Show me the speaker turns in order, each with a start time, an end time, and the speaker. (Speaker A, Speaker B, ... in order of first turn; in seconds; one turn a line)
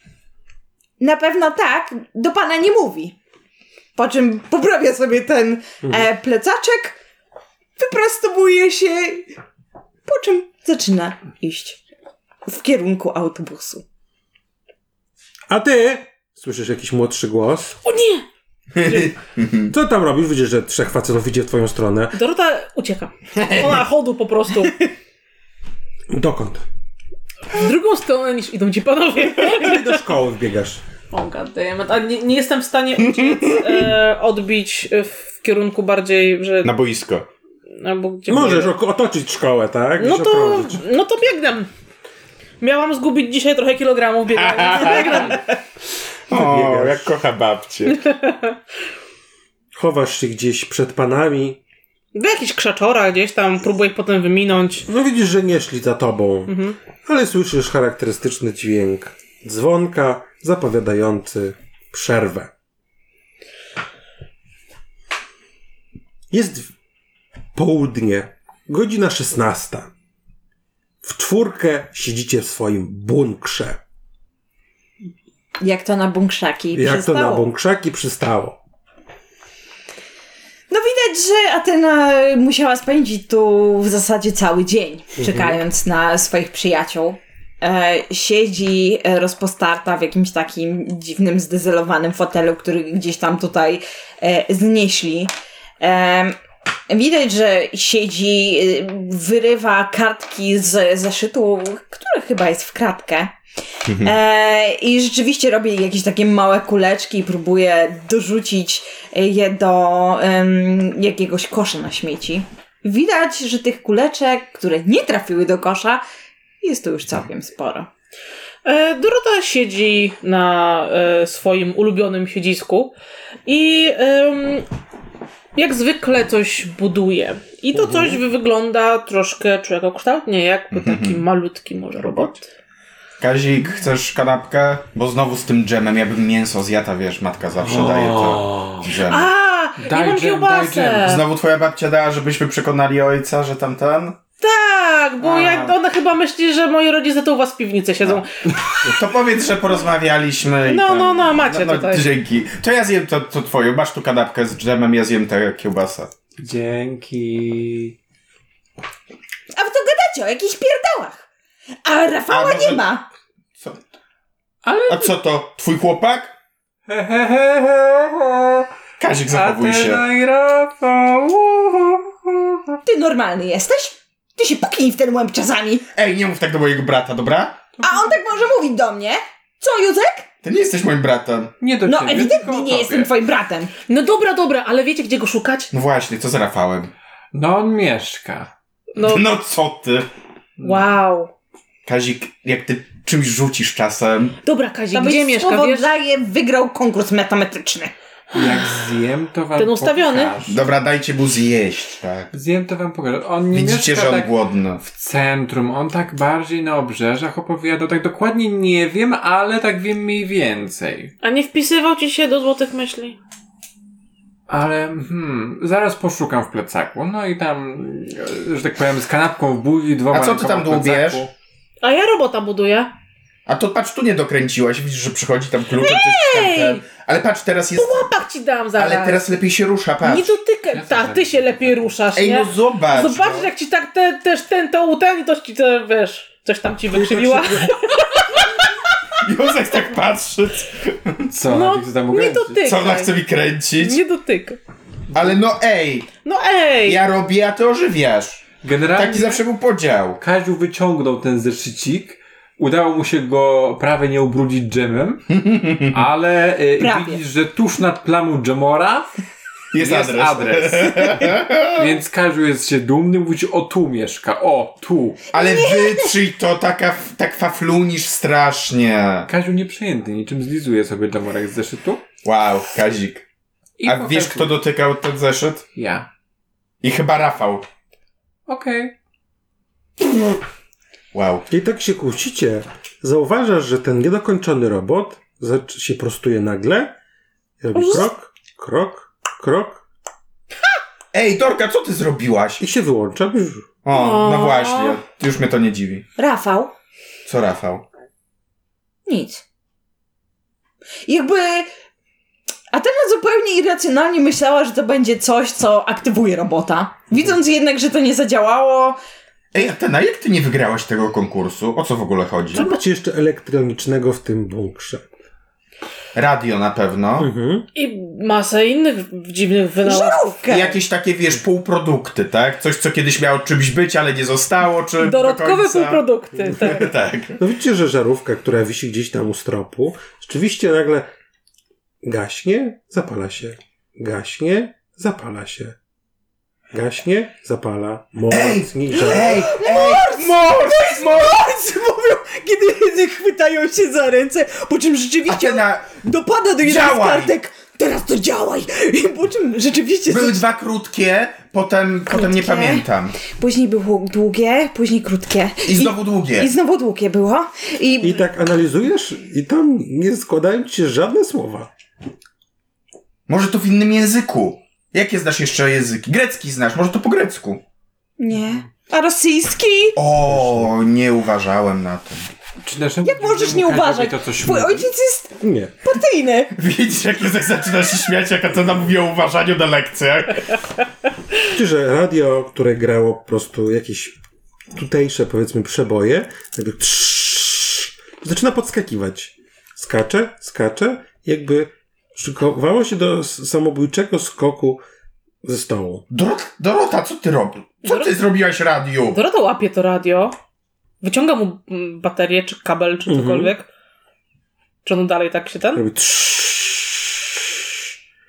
Speaker A: 1.0-3.2
Speaker A: 4.0-7.0
Speaker B: 5.8-6.1
Speaker A: 7.8-9.3
Speaker A: 10.1-11.8
Speaker A: 12.5-13.8
Speaker B: 15.5-17.8
Speaker C: 17.9-18.3
Speaker D: 18.8-19.7
Speaker B: 19.7-22.2
Speaker C: 22.1-24.9
Speaker B: 26.1-26.7
Speaker C: 27.5-30.0
Speaker B: 29.4-30.8
Speaker C: 31.1-36.8
Speaker D: 33.1-33.8
Speaker D: 36.6-37.3
Speaker C: 37.7-38.7
Speaker B: 38.3-40.8
Speaker C: 40.0-41.7
Speaker C: 42.6-45.5
Speaker D: 44.4-45.4
Speaker D: 46.3-48.0
Speaker B: 46.3-47.1
Speaker C: 48.1-48.6
Speaker B: 49.7-51.6
Speaker C: 52.1-54.9
Speaker B: 54.9-62.5
Speaker C: 56.5-56.8
Speaker B: 66.3-66.7
Speaker B: 67.5-69.9
Speaker B: 71.0-73.8
Speaker A: 75.6-77.5
Speaker B: 76.7-78.6
Speaker A: 80.7-96.4
Speaker B: 85.2-85.6
Speaker A: 96.9-103.3
Speaker A: 104.0-116.0
Speaker A: 116.6-117.9
Speaker C: 118.7-123.0
Speaker C: 123.5-124.7
Speaker C: 125.5-132.5
Speaker B: 127.7-128.2
Speaker D: 130.7-131.2
Speaker D: 133.2-139.3
Speaker E: 137.7-138.8
Speaker C: 139.1-141.2
Speaker E: 139.8-141.1
Speaker D: 141.0-144.2
Speaker C: 144.4-148.3
Speaker D: 145.2-145.8
Speaker D: 148.8-156.1
Speaker C: 150.6-152.1
Speaker E: 156.4-158.0
Speaker A: 159.5-161.3
Speaker A: 161.8-163.1
Speaker D: 162.3-162.9
Speaker E: 164.6-165.1
Speaker D: 164.9-166.3
Speaker E: 166.9-168.7
Speaker D: 169.0-170.0
Speaker E: 169.3-172.8
Speaker A: 172.9-175.9
Speaker D: 176.0-177.6
Speaker E: 177.8-178.2
Speaker A: 177.8-180.3
Speaker D: 180.4-181.6
Speaker E: 181.6-183.1
Speaker A: 181.8-183.7
Speaker C: 183.9-185.7
Speaker D: 185.7-186.9
Speaker E: 187.3-188.5
Speaker C: 189.0-189.2
Speaker D: 189.0-190.1
Speaker E: 190.6-190.9
Speaker C: 190.6-191.3
Speaker D: 191.8-194.4
Speaker C: 194.4-195.9
Speaker A: 194.9-197.9
Speaker C: 198.3-198.7
Speaker E: 198.3-200.6
Speaker C: 199.6-200.4
Speaker D: 200.4-202.3
Speaker E: 202.3-211.1
Speaker D: 203.5-204.8
Speaker C: 211.2-213.2
Speaker E: 214.5-221.3
Speaker D: 220.1-221.3
Speaker C: 221.8-222.9
Speaker D: 223.5-228.1
Speaker C: 225.8-226.8
Speaker C: 227.8-229.3
Speaker D: 228.8-230.3
Speaker C: 230.0-238.2
Speaker E: 230.7-231.9
Speaker D: 232.2-233.5
Speaker B: 236.9-237.8
Speaker D: 239.2-241.3
Speaker E: 241.3-242.6
Speaker C: 241.5-243.1
Speaker D: 242.6-244.0
Speaker C: 243.8-244.6
Speaker D: 245.1-246.1
Speaker C: 246.2-247.0
Speaker D: 246.8-250.2
Speaker E: 248.6-249.4
Speaker E: 250.2-255.2
Speaker D: 255.3-256.0
Speaker E: 255.9-259.2
Speaker A: 256.8-257.2
Speaker D: 259.7-261.9
Speaker E: 259.8-265.3
Speaker A: 265.3-266.2
Speaker D: 265.3-269.3
Speaker E: 269.3-272.0
Speaker D: 272.2-273.2
Speaker E: 273.8-274.6
Speaker D: 273.9-275.6
Speaker E: 275.8-276.1
Speaker D: 276.8-277.7
Speaker E: 278.5-278.9
Speaker D: 281.1-281.5
Speaker B: 281.5-286.9
Speaker B: 287.6-289.8
Speaker D: 291.1-292.6
Speaker B: 292.6-293.7
Speaker D: 293.8-296.1
Speaker C: 293.9-295.0
Speaker A: 296.2-296.7
Speaker D: 297.3-297.9
Speaker A: 299.1-299.4
Speaker A: 301.1-301.7
Speaker A: 302.7-309.0
Speaker D: 309.5-312.8
Speaker B: 312.5-315.1
Speaker D: 316.1-317.3
Speaker B: 317.2-317.7
Speaker C: 317.8-320.4
Speaker A: 319.8-320.8
Speaker D: 320.5-327.4
Speaker C: 325.0-326.9
Speaker B: 327.4-331.1
Speaker B: 332.0-335.8
Speaker B: 336.7-339.5
Speaker D: 338.3-341.4
Speaker A: 338.9-350.4
Speaker D: 345.3-345.9
Speaker D: 346.6-347.3
Speaker D: 350.1-353.2
Speaker A: 352.1-358.2
Speaker D: 355.7-356.5
Speaker B: 358.0-361.7
Speaker D: 363.3-367.6
Speaker A: 368.2-370.0
Speaker D: 370.0-372.3
Speaker B: 370.2-370.7
Speaker E: 372.6-374.9
Speaker A: 373.0-376.5
Speaker B: 375.4-375.7
Speaker D: 376.6-380.6
Speaker B: 381.5-384.2
Speaker B: 384.7-394.8
Speaker B: 395.4-396.0
Speaker D: 396.1-399.2
Speaker C: 397.9-398.1
Speaker C: 399.1-400.4
Speaker C: 401.0-403.7
Speaker B: 403.1-403.5
Speaker C: 404.8-405.8
Speaker B: 405.7-407.9